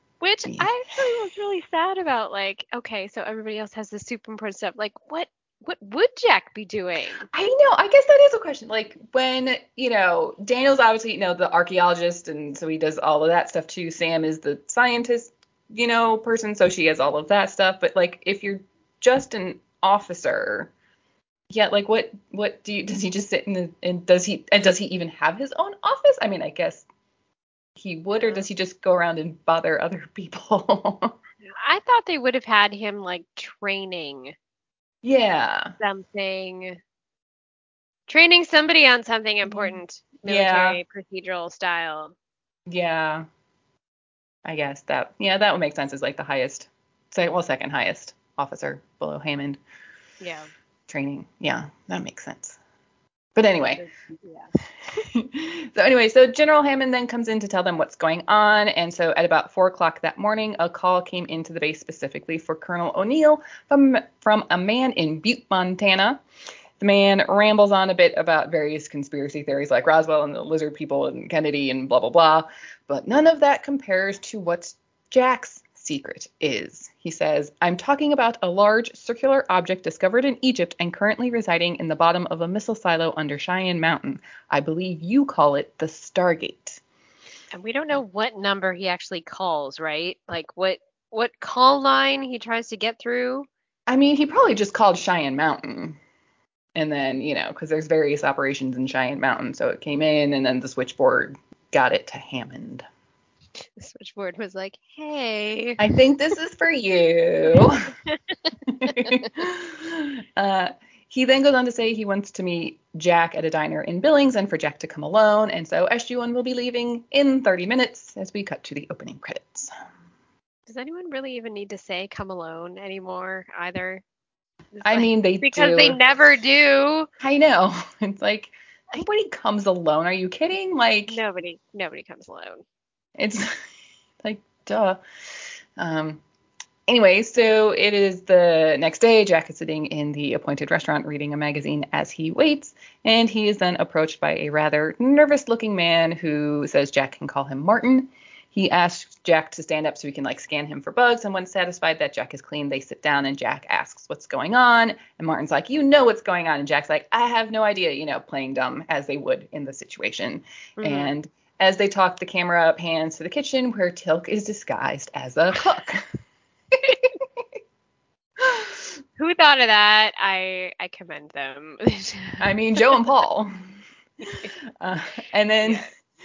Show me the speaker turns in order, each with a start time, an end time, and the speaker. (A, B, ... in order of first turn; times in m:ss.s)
0:00.2-0:07.3 A
0:07.3-0:20.7 B
0:21.5-0:26.9 B
0:27.8-0:31.2 B
0:28.2-0:28.5 A
0:31.5-0:34.4 A
0:35.0-0:35.8 B
0:35.8-0:36.8 A
0:38.1-0:42.1 A
0:39.5-0:40.8 B
0:42.7-0:43.2 B
0:44.4-0:49.6 B
0:50.2-0:50.5 A
0:50.9-0:52.6 B
0:53.4-0:53.8 B
0:53.8-0:54.5 A
0:54.9-1:06.2 B
1:06.8-1:26.8 B
1:27.5-1:33.5 A
1:33.9-1:36.0 B
1:36.8-1:42.9 B
1:43.8-1:45.9 A
1:45.8-1:47.9 B
1:47.5-1:48.2 A
1:48.7-1:59.7 B
1:48.8-1:49.2 A
2:00.7-2:04.0 A
2:04.8-2:07.1 A
2:04.8-2:06.0 B
2:07.2-2:11.2 B
2:11.1-2:12.6 A
2:13.2-2:13.6 B
2:14.2-2:15.0 B
2:15.8-2:16.2 B
2:16.9-2:46.1 B
2:40.8-2:41.1 A
2:46.7-2:47.2 B
2:48.4-2:48.7 B
2:49.2-2:53.0 A
2:52.4-2:53.5 B
2:54.2-2:54.5 A
2:54.3-2:55.9 B
2:55.6-2:55.9 A